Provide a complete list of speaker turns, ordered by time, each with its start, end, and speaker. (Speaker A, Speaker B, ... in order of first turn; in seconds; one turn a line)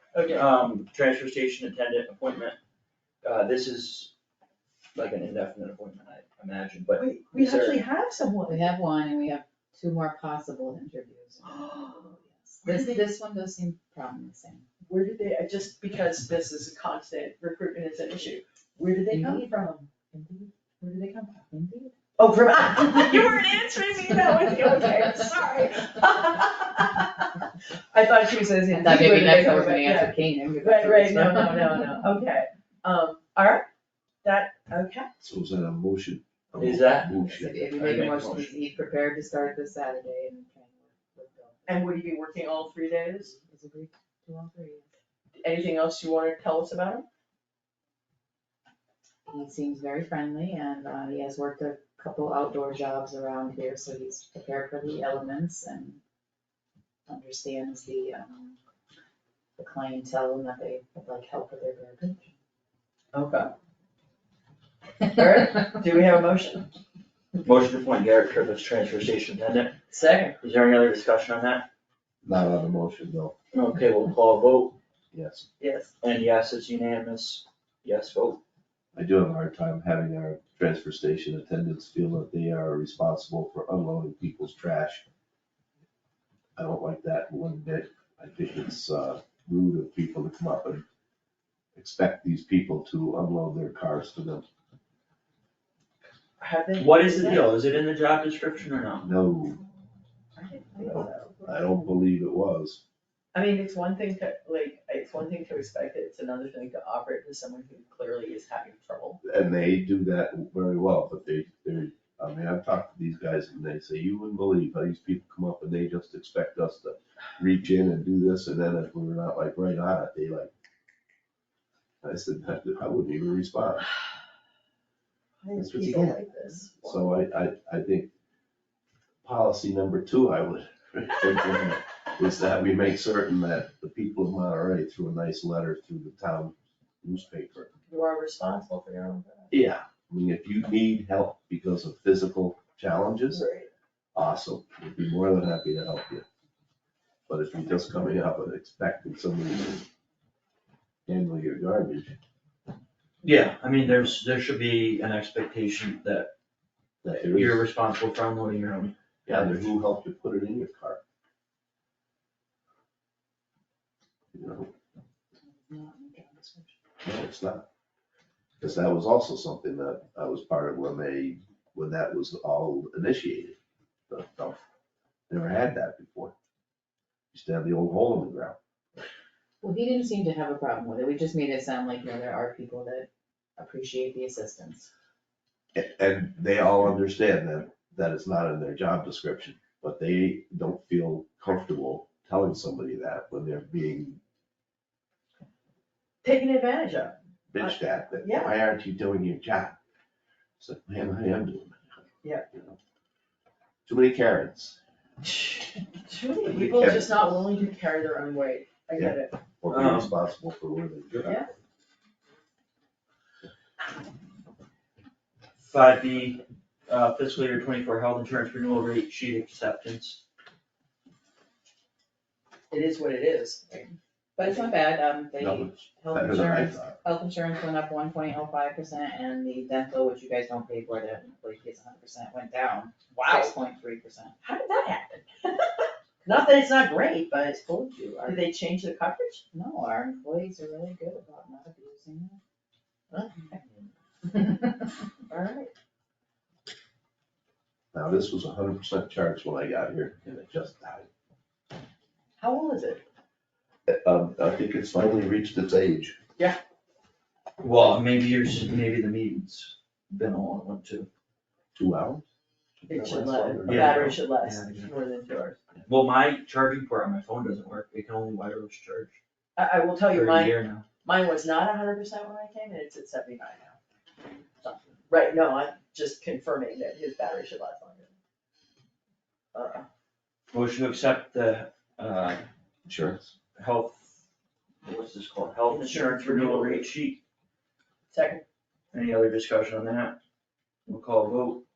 Speaker A: 0.1-0.5
Speaker B: 0.3-2.6
Speaker B: 3.2-4.1
Speaker B: 4.9-7.8
Speaker A: 6.9-8.7
Speaker C: 8.5-14.7
Speaker A: 11.5-12.1
Speaker A: 12.6-13.0
Speaker A: 14.9-19.8
Speaker C: 19.1-21.9
Speaker A: 22.2-33.7
Speaker C: 28.7-31.7
Speaker A: 34.2-35.1
Speaker D: 35.2-38.4
Speaker B: 36.6-37.1
Speaker C: 37.2-41.9
Speaker B: 37.7-38.6
Speaker A: 41.7-43.3
Speaker C: 43.3-44.9
Speaker A: 45.4-47.1
Speaker C: 49.3-56.0
Speaker C: 57.1-58.6
Speaker C: 59.6-62.3
Speaker A: 63.1-63.5
Speaker A: 65.1-66.7
Speaker B: 67.4-69.8
Speaker A: 69.9-70.4
Speaker B: 70.4-71.7
Speaker D: 72.2-73.4
Speaker B: 73.5-74.8
Speaker D: 75.1-75.5
Speaker A: 75.6-75.9
Speaker B: 76.0-78.4
Speaker D: 78.9-85.0
Speaker D: 86.6-90.8
Speaker D: 91.8-94.5
Speaker A: 96.4-97.5
Speaker B: 96.8-99.1
Speaker D: 99.0-99.6
Speaker A: 100.4-101.5
Speaker D: 100.8-102.8
Speaker A: 103.3-109.2
Speaker D: 109.2-120.5
Speaker D: 122.0-123.9
Speaker A: 125.4-127.2
Speaker D: 125.5-126.2
Speaker D: 126.8-128.1
Speaker D: 129.2-137.7
Speaker A: 137.9-139.5
Speaker D: 139.5-143.4
Speaker A: 143.3-143.7
Speaker D: 144.1-146.2
Speaker D: 147.3-149.8
Speaker D: 151.1-152.2
Speaker B: 153.2-156.3
Speaker D: 157.0-157.6
Speaker B: 157.3-158.9
Speaker D: 159.2-161.0
Speaker D: 164.3-164.7
Speaker C: 165.4-166.8
Speaker D: 167.0-167.7
Speaker D: 168.6-173.6
Speaker D: 174.1-174.6
Speaker D: 175.3-176.3
Speaker D: 177.3-178.6
Speaker C: 179.6-184.9
Speaker D: 185.8-194.2
Speaker A: 196.2-198.5
Speaker D: 197.5-199.8
Speaker D: 200.6-202.0
Speaker D: 202.5-202.8
Speaker D: 203.8-204.8
Speaker A: 205.2-209.4
Speaker D: 206.5-207.4
Speaker D: 209.0-211.4
Speaker B: 209.7-210.1
Speaker A: 211.2-211.5
Speaker B: 215.6-220.2
Speaker A: 222.7-223.9
Speaker C: 224.3-234.3
Speaker D: 225.4-227.0
Speaker A: 233.2-233.5
Speaker A: 234.4-235.7
Speaker A: 236.2-239.4
Speaker C: 239.5-242.4
Speaker A: 243.1-243.4
Speaker C: 244.2-244.9
Speaker A: 245.3-245.7
Speaker D: 247.9-251.1
Speaker A: 252.4-253.0
Speaker D: 253.9-256.2
Speaker B: 257.6-261.1
Speaker D: 261.7-262.2
Speaker D: 262.8-264.1
Speaker A: 262.9-265.6
Speaker B: 263.6-264.9
Speaker B: 265.9-269.2
Speaker A: 269.6-273.7
Speaker B: 270.1-270.8
Speaker A: 274.6-278.1
Speaker A: 279.5-279.9
Speaker B: 280.5-282.4
Speaker D: 282.9-283.3
Speaker B: 283.6-284.0
Speaker B: 284.8-287.2
Speaker A: 285.7-286.9
Speaker A: 288.1-288.4
Speaker B: 288.9-290.2
Speaker B: 290.9-291.6